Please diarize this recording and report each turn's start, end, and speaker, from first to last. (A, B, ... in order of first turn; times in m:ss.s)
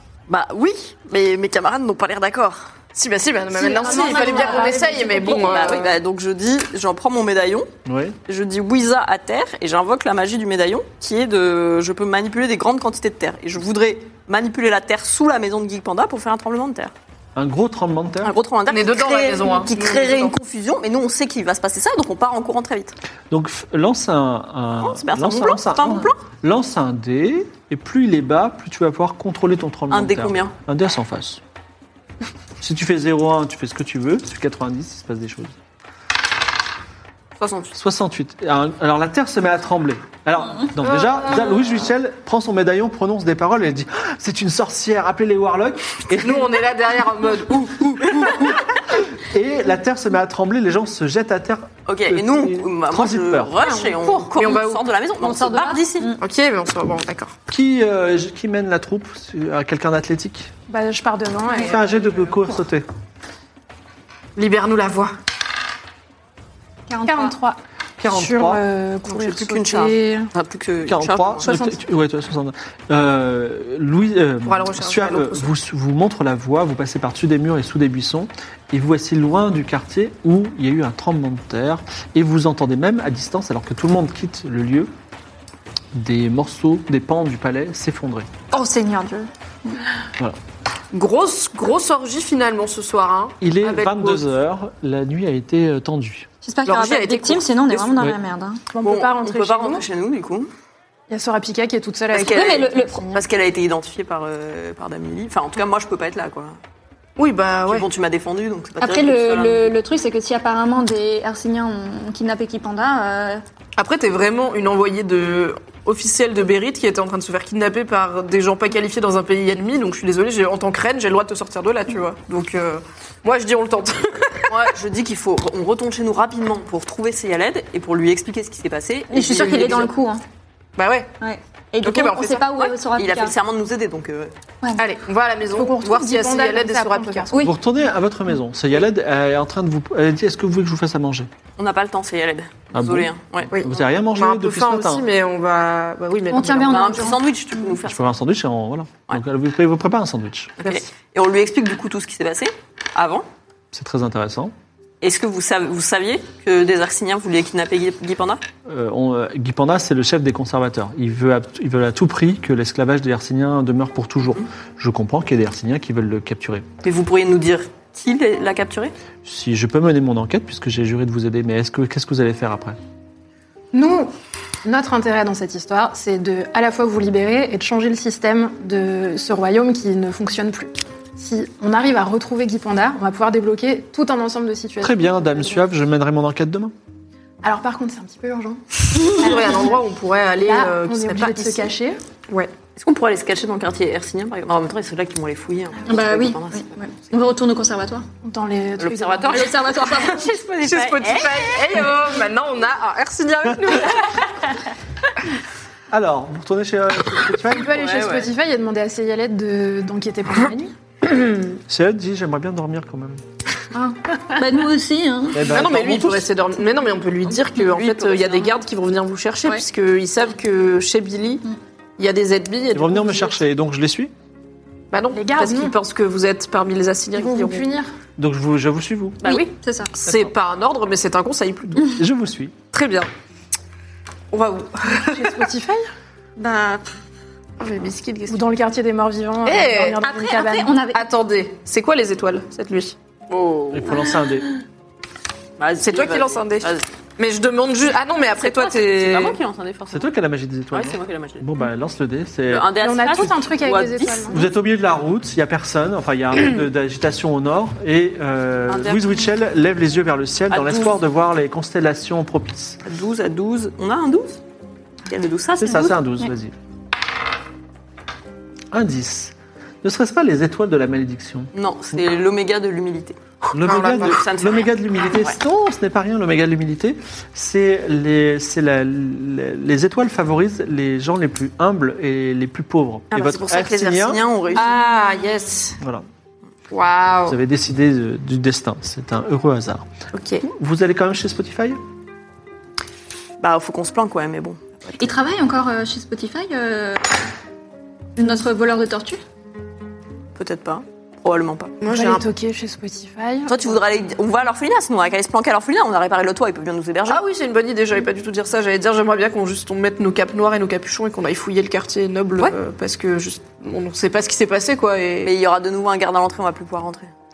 0:00.3-0:02.7 A
0:02.9-0:06.0 B
0:03.6-0:05.2 C
0:03.8-0:05.6 D
0:04.0-0:04.4 A
0:05.2-0:07.7 A
0:07.8-0:08.2 E
0:08.3-0:16.9 A
0:17.3-0:18.3 E
0:18.2-0:22.9 A
0:18.7-0:20.3 B
0:23.3-0:31.4 E
0:24.8-0:26.2 A
0:29.9-0:30.5 A
0:32.6-0:35.6 E
0:37.4-0:37.7 B
0:37.7-0:46.6 E
0:46.2-0:48.6 B
0:48.0-0:53.6 E
0:51.9-0:56.1 A
0:53.7-0:54.3 D
0:54.3-0:54.8 B
0:55.2-0:56.1 C
0:56.2-0:57.4 B
0:57.5-1:00.5 E
1:00.7-1:01.9 D
1:01.5-1:01.7 C
1:01.6-1:02.8 E
1:04.4-1:05.1 B
1:06.9-1:07.4 C
1:07.0-1:10.3 D
1:08.0-1:08.6 E
1:09.1-1:11.6 A
1:10.8-1:24.9 E
1:11.4-1:11.7 D
1:14.4-1:15.5 B
1:25.9-1:28.3 E
1:28.5-1:29.8 C
1:30.9-1:34.2 B
1:33.4-1:36.3 E
1:36.4-1:38.6 C
1:36.6-1:37.9 B
1:38.7-1:39.8 D
1:38.8-1:40.5 A
1:41.1-1:43.2 D
1:42.1-1:46.6 A
1:42.3-1:43.1 C
1:47.2-1:47.8 B
1:47.6-1:49.7 A
1:48.8-1:53.4 C
1:53.8-2:04.6 B
2:04.5-2:09.9 A
2:09.1-2:10.2 C
2:10.8-2:11.1 B
2:11.2-2:13.3 C
2:11.8-2:12.5 B
2:12.2-2:14.3 A
2:14.8-2:17.3 B
2:15.5-2:17.3 D
2:17.4-2:21.3 E
2:21.6-2:23.6 A
2:22.7-2:25.1 E
2:23.5-2:27.0 B
2:26.3-2:27.2 C
2:26.6-2:28.0 A
2:27.8-2:30.5 E
2:30.6-2:33.2 A
2:33.7-2:34.5 E
2:35.0-2:38.4 A
2:38.6-2:46.7 E
2:46.8-2:48.9 A
2:49.2-2:52.8 E
2:53.7-2:54.1 D
2:54.6-3:05.6 D
3:04.8-3:06.7 E
3:07.4-3:09.3 D
3:09.1-3:11.7 B
3:10.4-3:12.0 D
3:12.8-3:16.8 A
3:15.8-3:18.0 C
3:18.2-3:19.5 D
3:18.8-3:21.8 A
3:19.3-3:20.3 C
3:20.6-3:24.3 B
3:25.9-3:27.8 E
3:27.5-3:30.7 D
3:27.6-3:28.3 A
3:31.7-3:33.2 E
3:33.7-3:35.5 C
3:35.3-3:36.3 E
3:35.4-3:41.4 B
3:37.6-3:38.6 A
3:42.0-3:43.4 B
3:42.7-3:44.1 E
3:44.9-3:47.6 B
3:45.1-3:45.8 D
3:47.1-3:47.9 D
3:48.2-3:49.2 E
3:49.2-3:49.5 A
3:49.2-3:50.0 C
3:50.0-3:52.0 B
3:51.9-3:52.5 E
3:52.7-3:53.1 B
3:54.3-3:55.4 B
3:55.1-3:55.9 D
3:56.4-3:56.9 A
3:57.6-3:58.5 B
3:58.3-4:00.8 D
3:59.4-4:00.0 B
4:00.0-4:01.1 C
4:00.9-4:02.9 B
4:03.3-4:04.0 A
4:03.7-4:04.5 E
4:05.6-4:06.9 A
4:05.8-4:09.4 B
4:08.4-4:10.1 A
4:09.9-4:12.7 E
4:10.7-4:11.4 A
4:12.5-4:14.4 A
4:12.8-4:14.4 D
4:14.3-4:22.8 E
4:18.7-4:19.2 A
4:20.5-4:21.0 A
4:22.8-4:24.4 A
4:25.1-4:26.0 A
4:25.6-4:26.5 E
4:28.7-4:32.0 E
4:31.5-4:33.2 A
4:33.5-4:44.2 E
4:33.6-4:34.2 B
4:33.7-4:35.3 A
4:43.1-4:44.7 A
4:44.5-4:45.8 B
4:45.8-4:46.0 E
4:46.7-4:47.4 B
4:47.2-4:49.8 E
4:50.1-4:50.4 B
4:50.4-4:51.8 E
4:53.4-4:55.2 A
4:55.0-4:57.2 C
4:58.2-4:59.2 C
5:00.4-5:01.8 A
5:01.8-5:02.2 B
5:01.8-5:03.8 D
5:03.5-5:07.2 A
5:07.1-5:15.3 B
5:15.2-5:17.1 A